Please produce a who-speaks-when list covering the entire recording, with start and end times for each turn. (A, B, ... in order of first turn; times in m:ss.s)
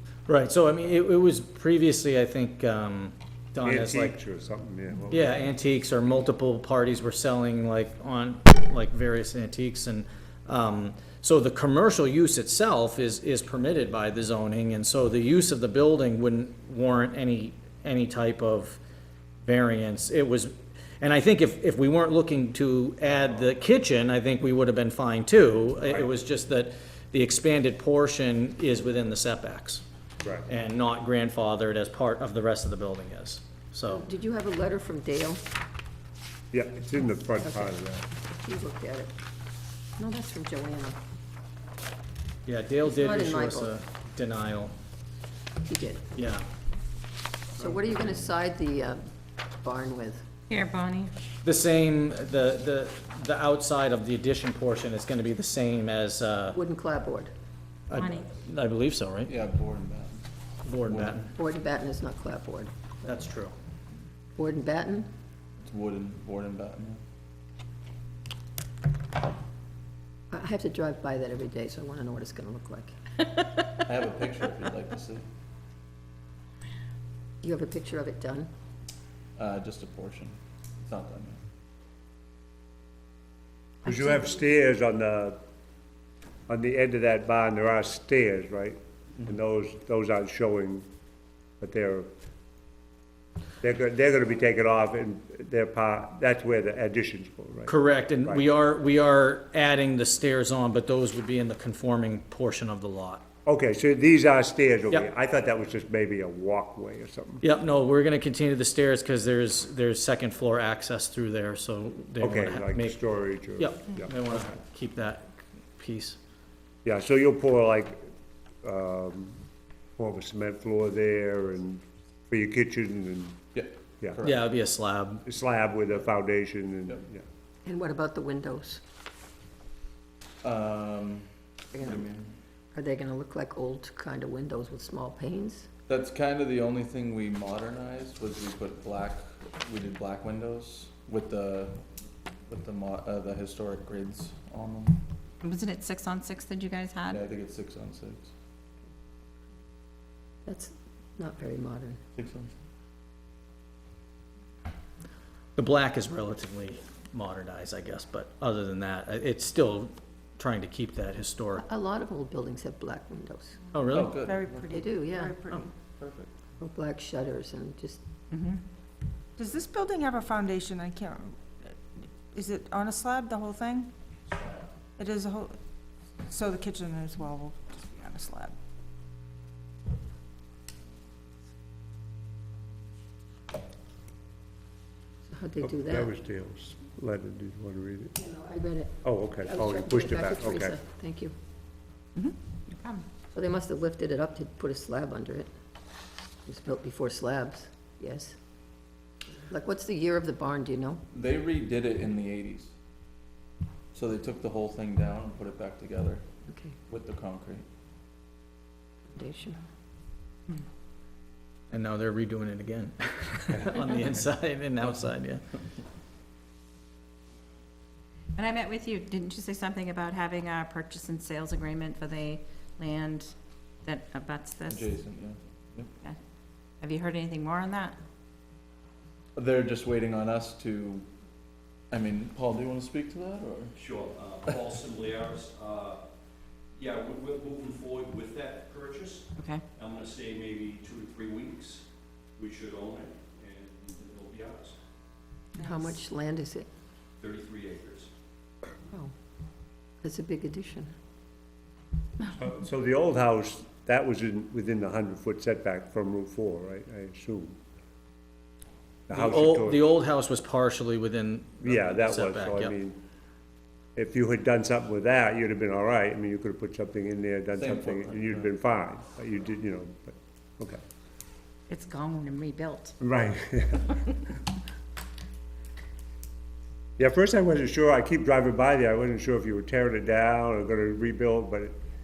0:00.3-0:04.2 A
0:03.6-0:05.5 B
0:05.1-0:18.8 A
0:19.4-0:29.8 A
0:30.2-0:30.5 B
0:30.5-0:34.1 A
0:33.9-0:35.4 C
0:36.5-0:38.1 B
0:37.4-0:37.7 C
0:38.4-0:39.1 C
0:40.0-0:41.0 C
0:42.5-0:44.7 A
0:42.8-0:43.8 C
0:45.7-0:46.1 C
0:46.1-0:46.5 A
0:47.6-0:48.1 B
0:47.6-0:50.3 C
0:50.5-0:51.1 D
0:51.4-0:56.6 A
0:56.5-0:57.3 C
0:57.9-0:59.3 A
0:57.9-0:58.3 D
0:59.3-1:00.2 E
1:00.6-1:01.3 A
1:00.9-1:01.2 E
1:01.3-1:02.7 C
1:03.0-1:03.5 A
1:04.4-1:05.1 C
1:05.6-1:07.0 E
1:10.3-1:12.9 C
1:13.8-1:15.2 E
1:17.4-1:18.5 C
1:19.4-1:21.4 E
1:23.8-1:25.4 B
1:26.5-1:30.9 B
1:31.6-1:32.1 B
1:33.6-1:38.5 B
1:37.7-1:43.2 A
1:43.5-1:47.4 B
1:47.4-1:53.0 A
1:52.2-1:54.5 B
1:53.6-1:56.2 A
1:56.8-1:58.1 B
1:58.6-1:59.4 B
2:00.0-2:03.4 B
2:03.5-2:04.4 E
2:04.2-2:05.2 A
2:05.2-2:07.2 B
2:07.6-2:08.8 C
2:10.4-2:12.3 E
2:11.7-2:12.0 C
2:12.7-2:15.7 C
2:15.9-2:21.8 E
2:22.5-2:25.0 E
2:25.4-2:27.2 D
2:27.1-2:28.3 E
2:30.5-2:32.0 C
2:32.2-2:32.5 E
2:35.6-2:41.6 A
2:41.6-2:43.6 C
2:43.7-2:44.2 A
2:43.9-2:44.9 E
2:44.2-2:45.7 F
2:44.7-2:45.4 C
2:46.0-2:46.3 E
2:46.6-2:48.0 C
2:48.3-2:48.6 D
2:49.4-2:51.4 F
2:52.3-2:53.9 F
2:55.0-2:55.6 F
2:56.2-2:58.5 F
3:05.3-3:06.1 C
3:05.6-3:08.2 B
3:08.2-3:11.3 C
3:09.0-3:10.8 B
3:12.2-3:13.0 D
3:13.3-3:15.5 C
3:16.5-3:18.4 C
3:19.5-3:21.0 C
3:21.1-3:22.7 E
3:23.9-3:26.2 E
3:26.5-3:26.8 C
3:26.9-3:27.6 E
3:29.1-3:29.6 C
3:31.7-3:35.4 A
3:38.4-3:43.3 D
3:43.8-3:45.0 D
3:44.7-3:45.9 E
3:46.8-3:48.0 D
3:49.4-3:51.1 E
3:51.9-3:53.7 E
3:53.8-3:56.0 G
3:56.8-4:01.9 G
3:59.4-3:59.6 D
4:02.4-4:04.8 G
4:05.6-4:06.7 C
4:07.2-4:08.1 G
4:10.0-4:10.9 C
4:12.3-4:17.6 B
4:19.1-4:19.8 B
4:19.1-4:22.7 A
4:21.6-4:23.0 B
4:24.0-4:30.8 B
4:27.6-4:28.5 E
4:31.7-4:33.0 D
4:33.0-4:34.0 B
4:37.0-4:41.8 B